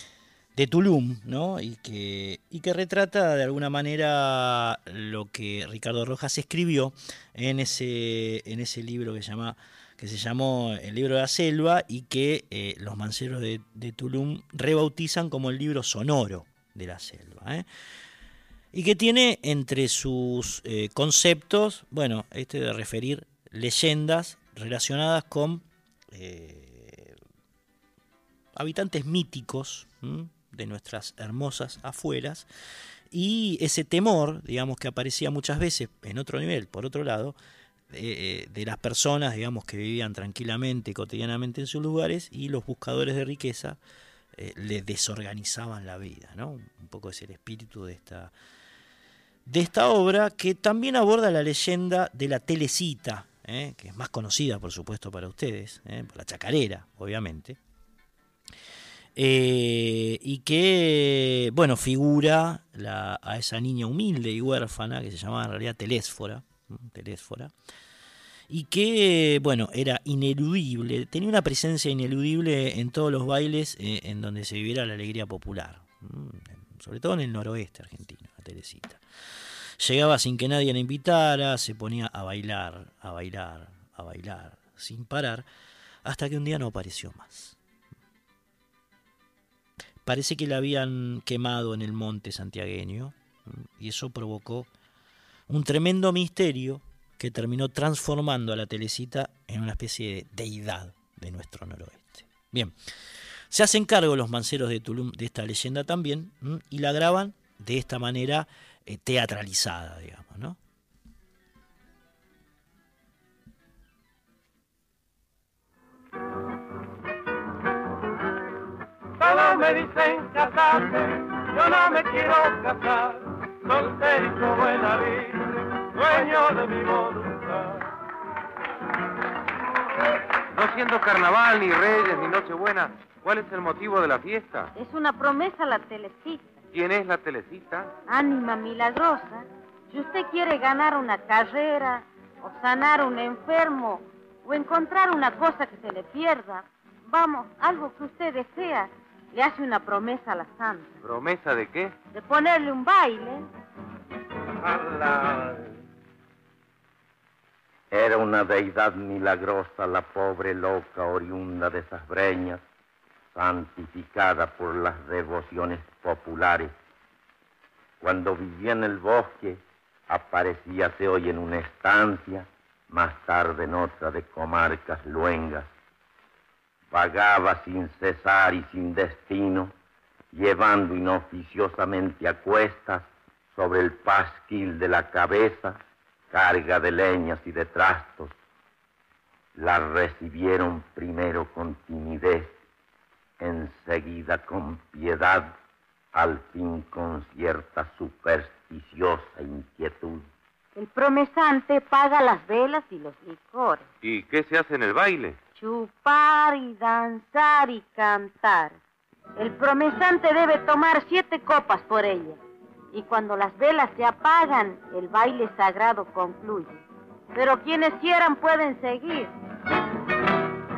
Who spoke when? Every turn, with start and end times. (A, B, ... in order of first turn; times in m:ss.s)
0:00.6-0:17.7 A
0:18.7-0:27.2 A
0:28.6-0:32.5 A
0:33.1-0:37.4 A
0:37.9-0:43.8 A
0:44.4-0:48.3 A
0:49.5-0:57.6 A
0:59.2-1:07.5 A
1:08.5-1:19.0 A
1:19.8-1:25.4 A
1:26.0-1:27.6 A
1:30.1-1:34.7 A
1:35.5-1:42.7 A
1:43.5-1:50.6 A
1:59.2-2:07.7 B
2:10.5-2:14.7 C
2:14.8-2:16.6 D
2:16.7-2:17.9 C
2:18.1-2:31.0 D
2:31.0-2:32.0 C
2:32.1-2:33.4 D
2:34.6-2:35.8 B
2:37.9-2:42.6 E
2:43.3-2:46.7 E
2:48.0-2:55.7 E
2:56.9-2:59.7 E
3:00.3-3:05.8 E
3:06.3-3:08.3 E
3:09.6-3:12.6 E
3:13.4-3:15.5 E
3:16.1-3:20.2 E
3:20.8-3:23.9 D
3:24.0-3:25.4 C
3:25.6-3:28.8 D
3:29.4-3:32.4 D
3:32.9-3:36.8 D
3:37.3-3:39.3 D